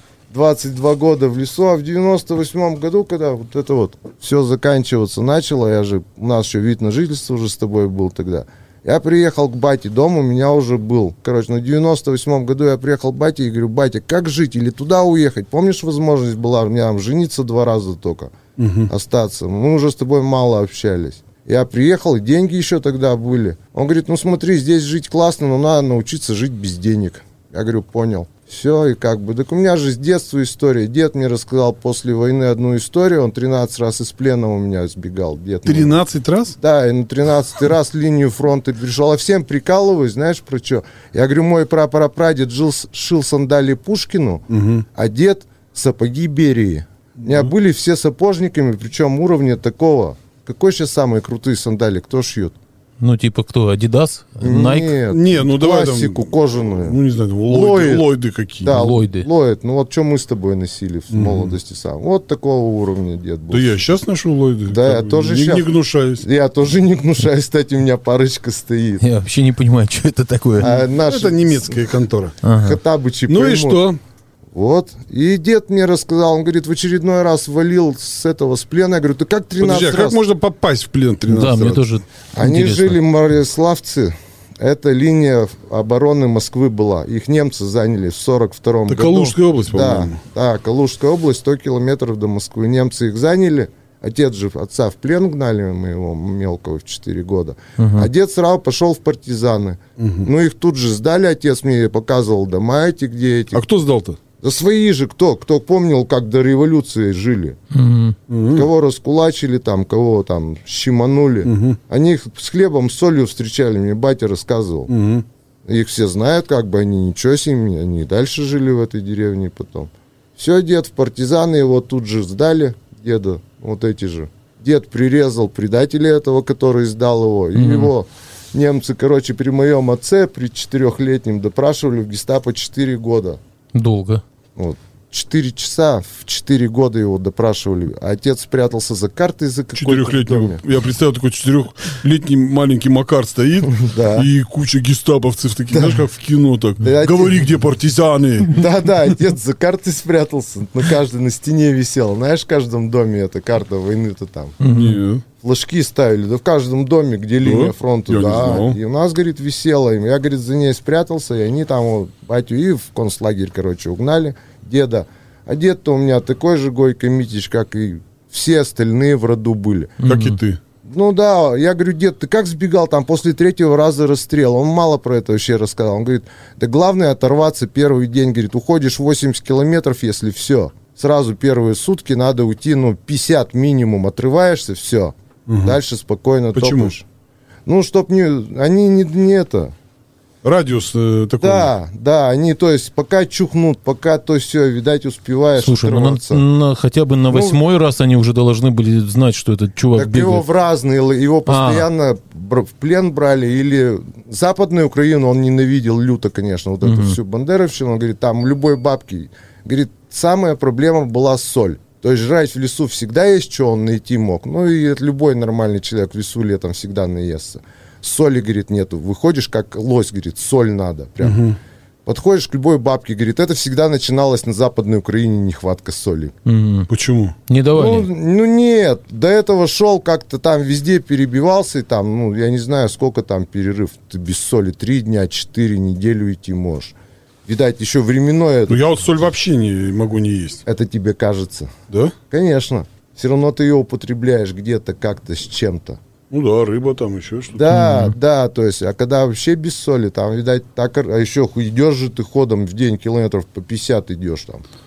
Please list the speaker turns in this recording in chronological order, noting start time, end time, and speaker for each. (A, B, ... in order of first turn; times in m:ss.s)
0:00.3-0:18.3 A
0:18.6-0:18.9 B
0:18.9-0:36.0 A
0:35.6-0:36.6 B
0:36.6-0:52.5 A
0:44.5-0:44.8 B
0:53.0-0:55.0 C
0:54.4-0:58.1 A
0:55.1-0:58.8 B
0:58.6-1:03.9 A
0:58.7-0:59.3 C
1:01.1-1:01.5 B
1:03.5-1:06.2 B
1:04.7-1:09.0 A
1:09.0-1:10.8 C
1:10.6-1:11.8 A
1:11.0-1:12.4 B
1:12.4-1:12.8 C
1:12.5-1:13.8 A
1:13.3-1:14.0 B
1:14.5-1:20.2 A
1:19.6-1:21.8 B
1:21.3-1:23.0 C
1:22.3-1:43.6 A
1:28.9-1:30.2 B
1:37.8-1:38.1 C
1:40.0-1:40.3 B
1:43.5-1:44.2 B
1:44.4-1:47.6 A
1:47.7-1:48.2 C
1:48.3-1:48.7 B
1:48.5-1:54.9 A
1:51.4-1:51.8 B
1:54.9-1:55.2 B
1:55.6-2:13.4 A
2:07.5-2:07.9 C
2:13.7-2:14.2 C
2:14.6-2:20.6 A
2:19.7-2:28.6 B
2:23.6-2:24.3 A
2:25.7-2:26.0 A
2:26.8-2:27.4 A
2:28.5-2:34.6 A
2:34.6-2:35.0 C
2:34.7-2:35.2 B
2:35.4-2:50.0 A
2:37.4-2:38.8 B
2:50.0-2:50.4 C
2:50.0-2:50.6 B
2:50.8-3:07.0 A
3:05.5-3:05.8 B
3:06.5-3:06.9 B
3:07.6-3:09.7 A
3:10.4-3:11.7 B
3:11.4-3:16.4 A
3:15.6-3:20.4 C
3:17.3-3:17.6 A
3:19.9-3:41.5 A
3:21.5-3:21.9 C
3:26.8-3:27.2 C
3:41.2-3:41.6 B
3:42.0-3:46.4 A
3:46.4-3:46.9 C
3:46.9-3:47.4 B
3:47.5-3:48.1 C
3:47.7-3:59.2 A
3:58.7-4:00.6 B
4:00.6-4:01.7 A
4:01.9-4:02.1 B
4:02.3-4:06.0 A
4:06.3-4:07.7 B
4:07.5-4:14.6 A
4:07.7-4:08.1 C